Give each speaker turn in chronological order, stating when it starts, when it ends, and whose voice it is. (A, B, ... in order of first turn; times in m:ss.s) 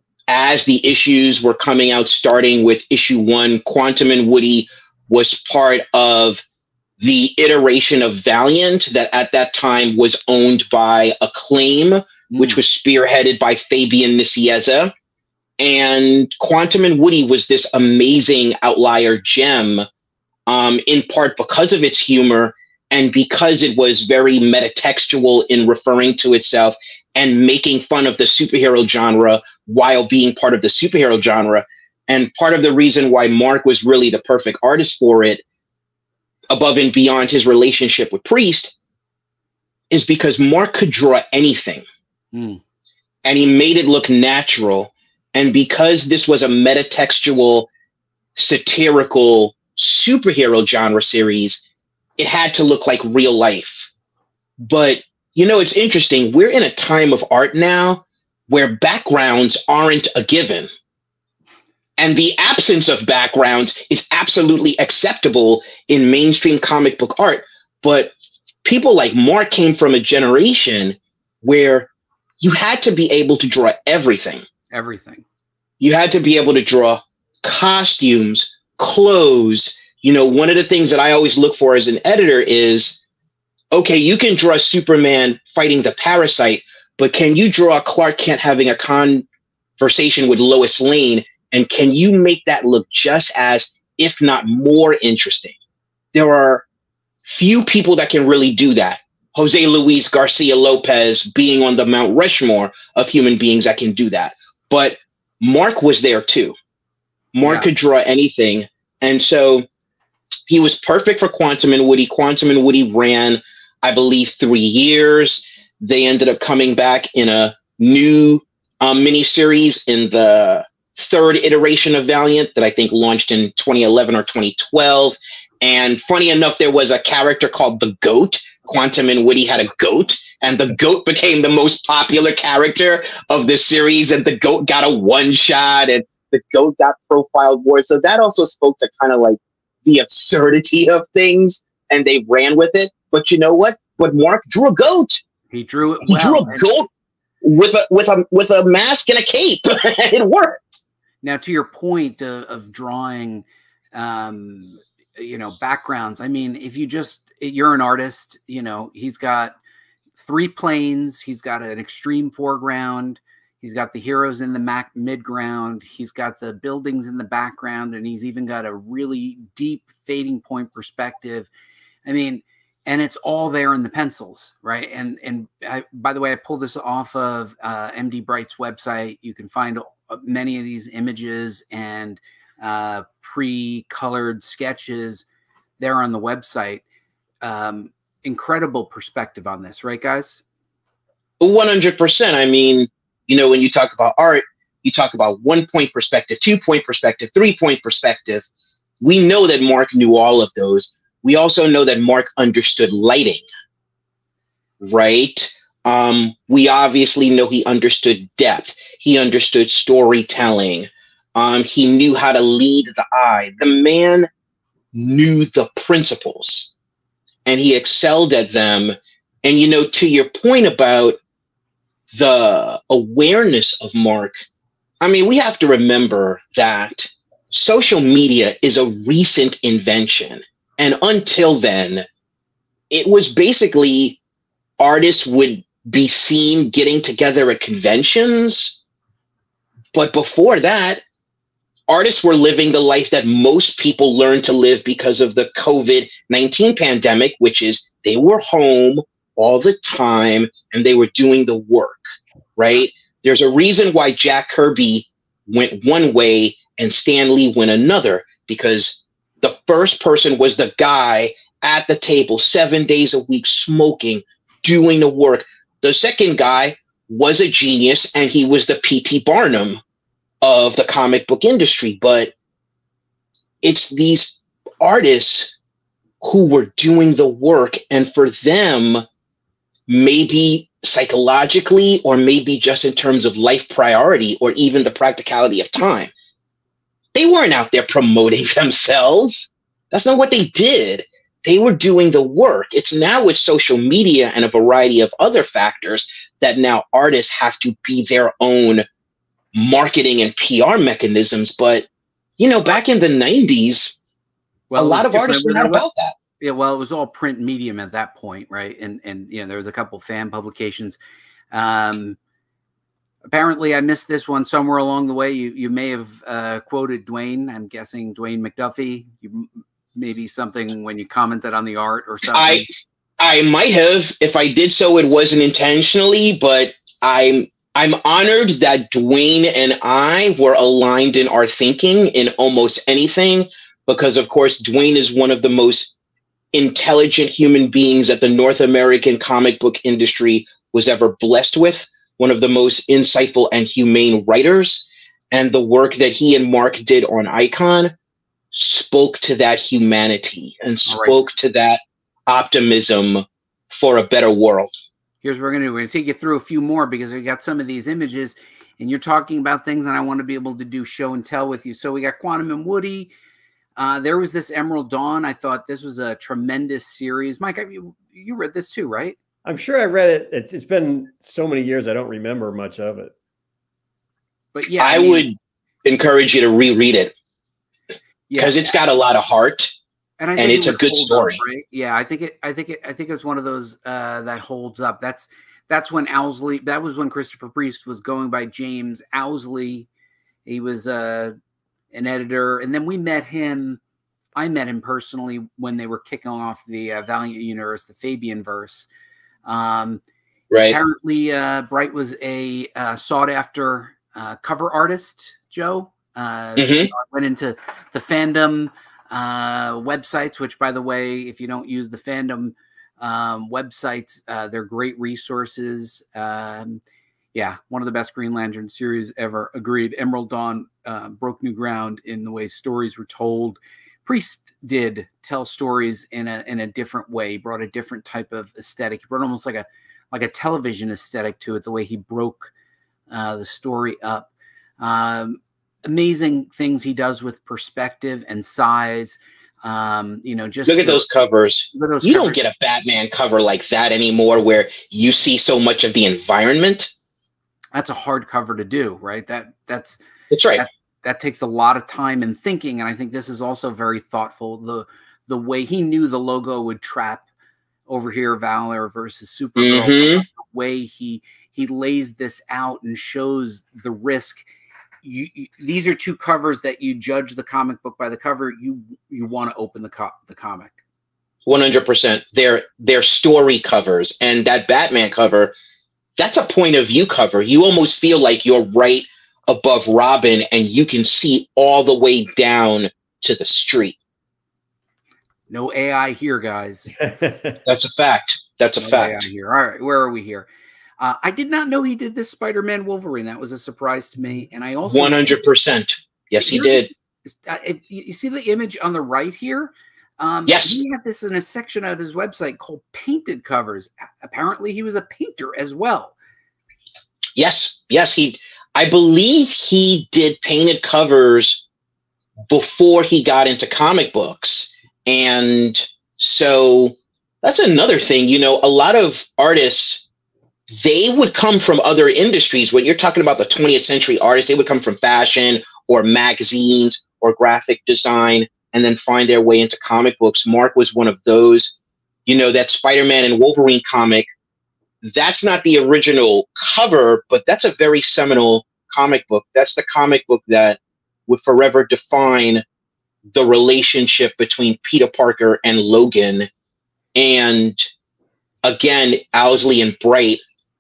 0:00.3-0:06.4 A
0:07.0-0:14.9 A
0:12.3-0:12.6 B
0:15.6-0:19.9 A
0:20.5-0:35.4 A
0:36.5-0:38.7 A
0:39.9-0:41.8 A
0:42.3-0:42.6 B
0:43.2-0:47.7 A
0:48.4-0:51.6 A
0:52.2-0:53.9 A
0:54.7-1:00.7 A
1:02.0-1:08.1 A
1:08.6-1:11.9 A
1:12.4-1:14.4 A
1:14.7-1:15.2 B
1:15.8-1:23.0 A
1:23.7-1:29.3 A
1:29.8-1:35.6 A
1:36.1-1:36.6 A
1:37.3-1:46.5 A
1:47.3-1:49.6 A
1:47.4-1:47.7 B
1:50.5-2:25.2 A
2:25.5-2:26.6 B
2:26.1-2:26.9 A
2:27.4-2:30.8 A
2:31.2-2:39.5 B
2:40.2-2:51.5 B
2:52.0-3:05.3 B
3:05.8-3:06.8 B
3:07.4-3:10.4 B
3:11.4-3:18.4 A
3:19.0-3:23.4 A
3:24.8-3:34.3 A
3:34.9-3:36.7 A
3:37.5-3:41.2 A
3:42.1-3:44.3 A
3:45.0-3:52.0 A
3:52.9-3:54.2 A
3:54.8-3:58.7 A
3:59.9-4:01.0 A
4:01.9-4:12.0 A
4:12.6-4:29.8 A
4:30.4-4:32.3 A
4:33.6-4:35.5 A
4:36.2-4:39.0 A
4:39.9-4:46.1 A
4:47.2-4:58.8 A
4:59.6-5:01.9 A
5:02.4-5:04.0 A
5:04.7-5:05.8 B
5:04.8-5:06.2 A
5:06.4-5:11.0 B
5:11.5-5:12.2 B
5:13.3-5:22.7 B
5:22.3-5:22.7 A
5:23.2-5:35.9 A
5:36.5-5:47.9 A
5:48.5-5:54.7 A
5:50.9-5:51.3 B
5:55.2-6:03.1 B
6:03.8-6:09.2 B
6:09.4-6:13.1 C
6:14.5-6:15.3 B
6:14.8-6:15.3 A
6:15.8-6:17.1 A
6:18.3-6:18.7 B
6:18.4-6:19.7 A
6:20.2-6:29.9 B
6:20.4-6:21.4 A
6:30.5-6:31.4 B
6:31.9-6:33.8 B
6:34.4-6:38.9 B
6:39.5-6:40.0 B
6:40.5-6:40.8 A
6:40.7-6:56.8 B
6:46.6-6:46.9 A
6:57.3-7:12.5 B
7:13.1-7:14.3 B
7:14.8-7:21.0 B
7:20.7-7:26.9 A
7:21.7-7:22.4 B
7:27.8-7:30.0 B
7:30.3-7:30.6 A
7:30.6-7:37.3 B
7:37.9-7:44.4 B
7:39.6-7:40.2 A
7:45.0-7:50.8 B
7:51.5-7:55.5 A
7:56.2-8:04.0 A
8:05.5-8:07.0 B
8:07.0-8:07.6 C
8:07.7-8:09.3 A
8:08.8-8:10.5 B
8:11.0-8:15.4 B
8:14.9-8:16.9 A
8:16.4-8:26.2 B
8:20.5-8:20.8 A
8:27.4-8:31.6 A
8:32.5-8:40.0 A
8:40.8-8:54.3 A
8:55.0-9:02.6 A
9:03.3-9:06.5 A
9:07.2-9:07.8 A
9:08.6-9:10.4 A